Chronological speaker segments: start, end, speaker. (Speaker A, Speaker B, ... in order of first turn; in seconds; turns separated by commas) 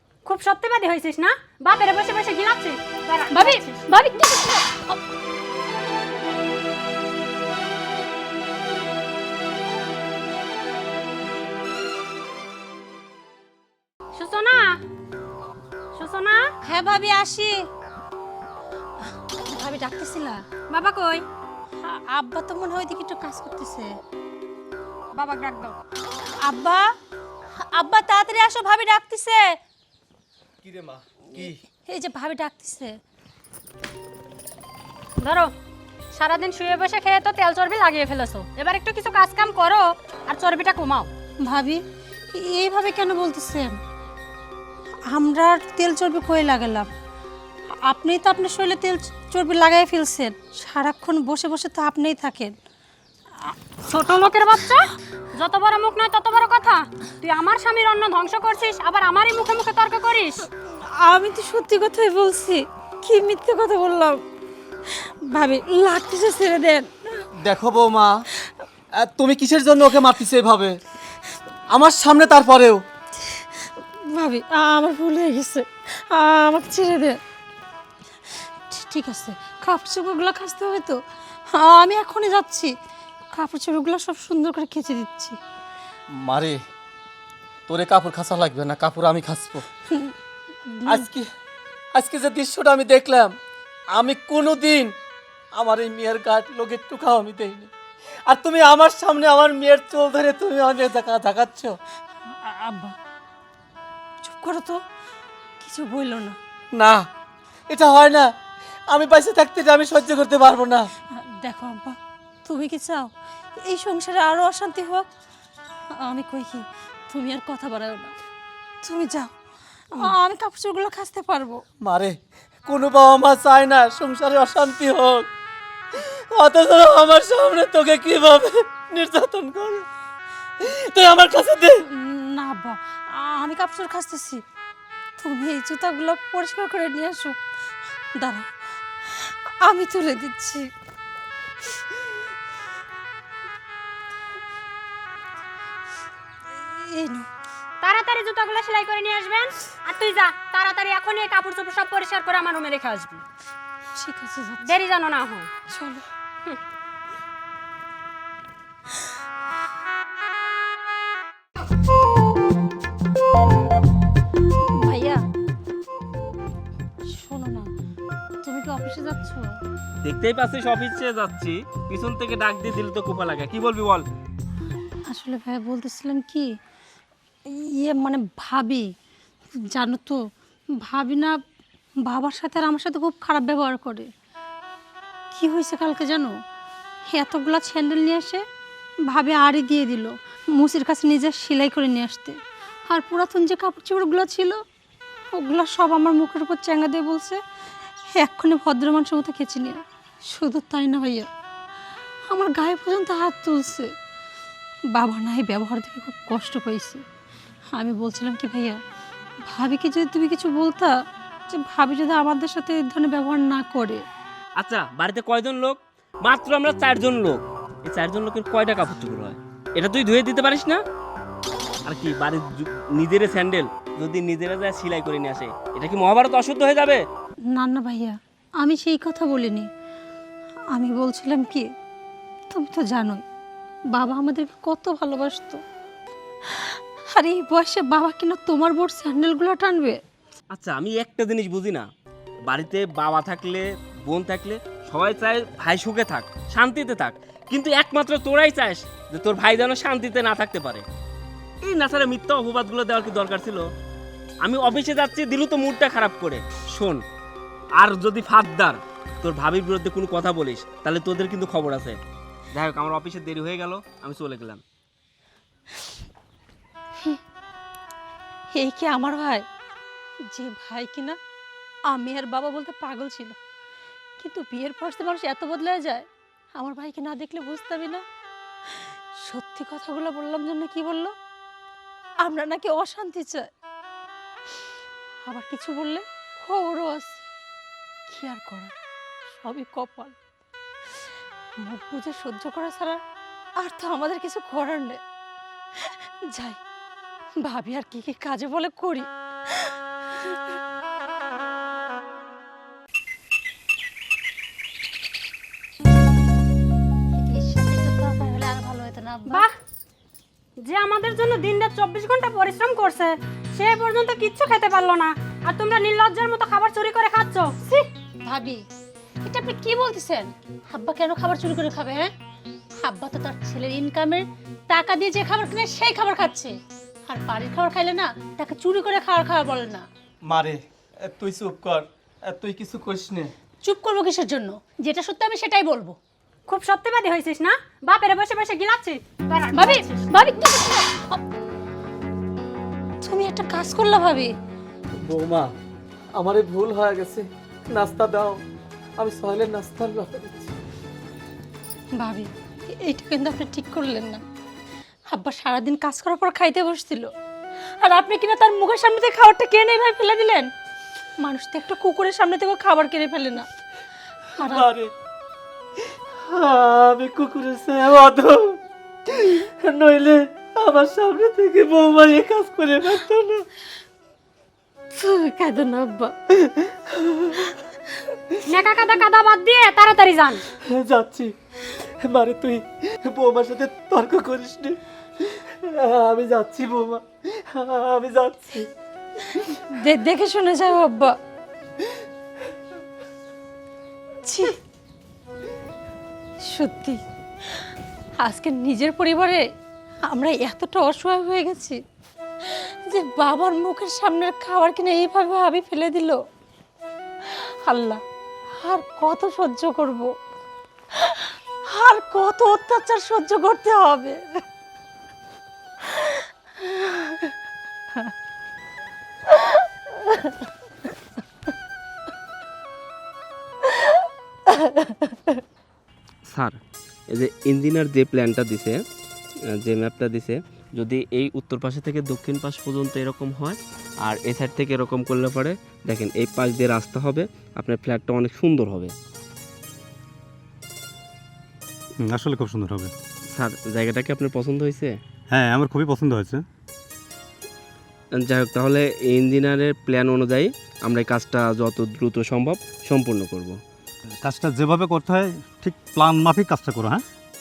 Speaker A: 0.2-3.8, Speaker B: 3.3-5.0, Speaker A: 14.1-14.8, Speaker A: 15.9-16.4, Speaker B: 16.7-17.6, Speaker B: 19.5-20.4, Speaker A: 20.7-21.2, Speaker B: 21.8-23.9, Speaker A: 25.1-25.8, Speaker B: 26.4-26.9, Speaker B: 27.6-29.6, Speaker C: 30.6-31.6, Speaker B: 31.4-33.0, Speaker A: 35.2-35.5, Speaker A: 36.1-41.1, Speaker B: 41.4-43.8, Speaker B: 45.1-46.9, Speaker B: 47.8-52.5, Speaker A: 53.9-60.4, Speaker B: 61.0-64.2, Speaker B: 64.9-66.9, Speaker C: 67.4-68.2, Speaker C: 68.9-70.8, Speaker C: 71.7-72.8, Speaker B: 74.1-77.2, Speaker B: 78.7-81.0, Speaker B: 81.5-82.7, Speaker B: 83.3-85.4, Speaker C: 86.1-86.6, Speaker C: 87.7-89.7, Speaker B: 90.7-91.0, Speaker C: 90.8-91.3, Speaker C: 91.9-93.3, Speaker C: 93.9-94.9, Speaker C: 95.5-97.7, Speaker C: 98.3-101.8, Speaker B: 102.4-103.0, Speaker B: 104.2-104.8, Speaker B: 105.6-106.4, Speaker C: 106.7-107.0, Speaker C: 107.7-108.3, Speaker C: 108.9-110.9, Speaker B: 111.2-113.1, Speaker B: 113.6-115.1, Speaker B: 115.9-118.1, Speaker B: 118.8-119.3, Speaker B: 119.9-121.6, Speaker C: 121.8-125.3, Speaker C: 126.0-129.8, Speaker C: 130.6-131.8, Speaker B: 131.9-134.4, Speaker B: 135.2-137.4, Speaker B: 138.2-138.5, Speaker B: 139.1-140.7, Speaker B: 146.6-147.3, Speaker A: 147.8-153.2, Speaker B: 153.9-154.7, Speaker A: 154.6-155.5, Speaker B: 155.7-156.0, Speaker B: 164.8-165.2, Speaker B: 167.1-167.7, Speaker B: 168.4-169.5, Speaker D: 170.0-174.0, Speaker B: 175.1-176.5, Speaker B: 177.5-178.9, Speaker B: 179.7-180.2, Speaker B: 180.8-181.3, Speaker B: 182.0-184.1, Speaker B: 185.3-186.3, Speaker B: 187.1-188.4, Speaker B: 189.1-194.6, Speaker B: 195.3-197.4, Speaker B: 198.1-201.3, Speaker B: 202.3-203.9, Speaker B: 204.9-207.0, Speaker B: 207.7-208.8, Speaker B: 209.5-210.9, Speaker B: 211.5-214.0, Speaker D: 214.6-220.8, Speaker D: 221.8-227.0, Speaker B: 227.5-229.7, Speaker B: 230.7-231.7, Speaker B: 232.5-233.2, Speaker B: 233.9-235.6, Speaker B: 236.6-240.0, Speaker D: 240.5-241.9, Speaker D: 242.5-250.8, Speaker D: 251.7-253.6, Speaker D: 254.4-257.0, Speaker D: 257.8-262.0, Speaker D: 262.5-264.6, Speaker B: 268.5-269.4, Speaker B: 270.3-271.2, Speaker B: 271.9-273.4, Speaker B: 274.2-278.0, Speaker B: 279.2-281.1, Speaker B: 282.2-283.5, Speaker B: 285.2-287.2, Speaker B: 288.1-288.7, Speaker B: 289.3-290.1, Speaker B: 291.6-293.0, Speaker B: 293.6-295.0, Speaker B: 296.3-296.6, Speaker B: 297.4-299.7, Speaker B: 307.2-309.4, Speaker A: 310.6-317.9, Speaker B: 318.2-318.6, Speaker B: 319.2-322.1, Speaker B: 322.8-326.5, Speaker B: 327.1-329.9, Speaker C: 330.3-333.3, Speaker B: 333.6-335.9, Speaker A: 336.5-340.1, Speaker B: 339.5-341.2, Speaker B: 343.0-344.3, Speaker C: 345.0-345.5, Speaker C: 346.1-348.4, Speaker C: 349.0-350.5, Speaker B: 352.0-354.2, Speaker B: 355.1-357.1, Speaker B: 357.8-360.5, Speaker B: 361.2-363.5, Speaker B: 364.4-364.7, Speaker C: 364.4-364.9, Speaker C: 366.3-373.4, Speaker B: 374.9-376.1, Speaker C: 376.4-377.5, Speaker A: 378.5-380.4, Speaker C: 380.6-381.3, Speaker C: 382.0-388.7, Speaker B: 389.7-391.1, Speaker B: 394.2-394.6, Speaker B: 396.4-397.0, Speaker B: 398.2-399.4, Speaker B: 400.1-401.8, Speaker B: 402.5-406.2, Speaker B: 407.6-408.0, Speaker B: 408.6-410.1, Speaker B: 411.7-414.4, Speaker B: 415.9-417.2, Speaker B: 424.6-425.1, Speaker D: 426.3-426.6, Speaker D: 427.1-428.8, Speaker D: 429.6-438.9, Speaker E: 442.0-442.9, Speaker D: 443.3-445.0, Speaker E: 445.3-446.4, Speaker D: 448.1-453.6, Speaker E: 454.2-457.0